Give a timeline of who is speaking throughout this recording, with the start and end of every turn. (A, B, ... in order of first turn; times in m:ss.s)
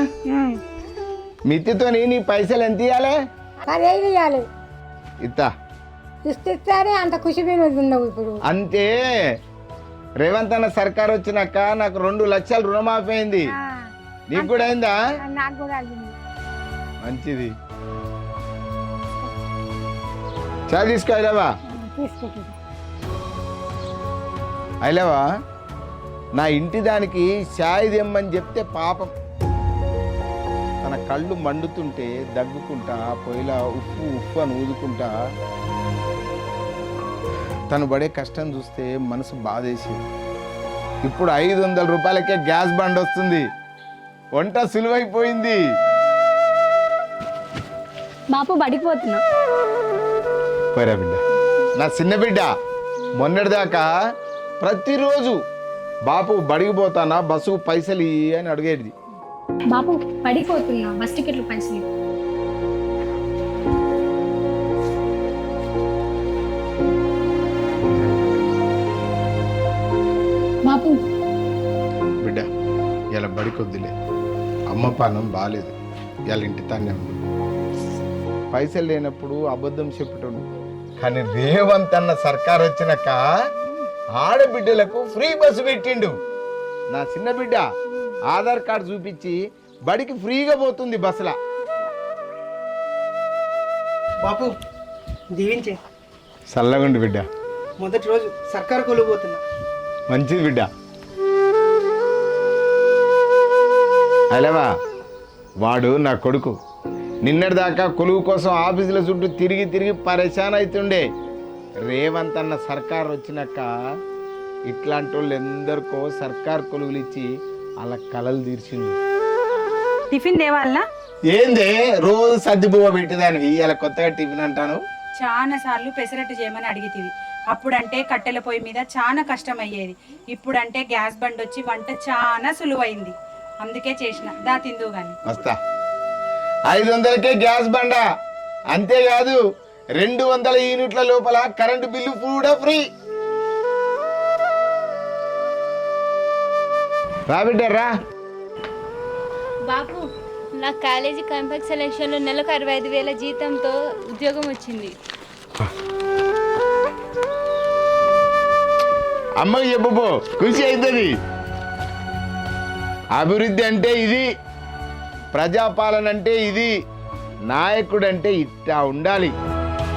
0:00.3-0:00.6 A
0:01.5-0:03.2 B
0:03.7-0:04.4 A
0:05.2-0:05.5 B
0:06.3-0:08.4 A
0:08.5-0:09.1 B
0:10.2-0:13.4 B
0:13.5-0:13.8 A
0:14.3-0:15.0 B
0:14.4-0:16.1 A
0:17.0-0:17.5 B
0:20.7-0:21.5 B
0:21.7-0:22.6 A
0:24.8-0:25.2 B
0:26.4-0:29.1 B
0:30.8-0:35.1 B
0:37.7-0:40.0 B
0:41.0-0:43.4 B
0:44.4-0:45.6 B
0:48.3-0:49.2 C
0:50.7-0:51.2 B
0:51.8-0:52.5 B
0:53.2-0:53.9 B
0:54.6-0:55.4 B
0:56.1-0:58.9 B
0:59.7-1:01.8 C
1:10.7-1:11.0 C
1:12.2-1:12.5 B
1:13.1-1:13.9 B
1:14.7-1:15.7 B
1:16.3-1:17.3 B
1:18.5-1:23.2 B
1:24.2-1:26.1 B
1:26.9-1:27.6 B
1:28.3-1:31.4 B
1:34.2-1:34.6 D
1:35.3-1:35.8 D
1:36.5-1:37.3 B
1:37.8-1:39.4 D
1:40.1-1:40.7 B
1:44.3-1:44.7 B
1:45.6-1:46.6 B
1:47.2-1:51.0 B
1:51.8-1:53.7 B
1:54.7-1:57.3 B
1:57.8-1:59.0 B
2:00.1-2:00.8 E
2:01.3-2:04.8 B
2:05.2-2:15.2 E
2:15.2-2:15.6 B
2:16.7-2:18.0 B
2:18.7-2:19.4 B
2:20.0-2:22.8 B
2:27.3-2:27.9 B
2:29.6-2:35.0 F
2:39.4-2:41.1 B
2:43.2-2:44.3 B
2:45.3-2:46.7 B
2:47.5-2:49.3 B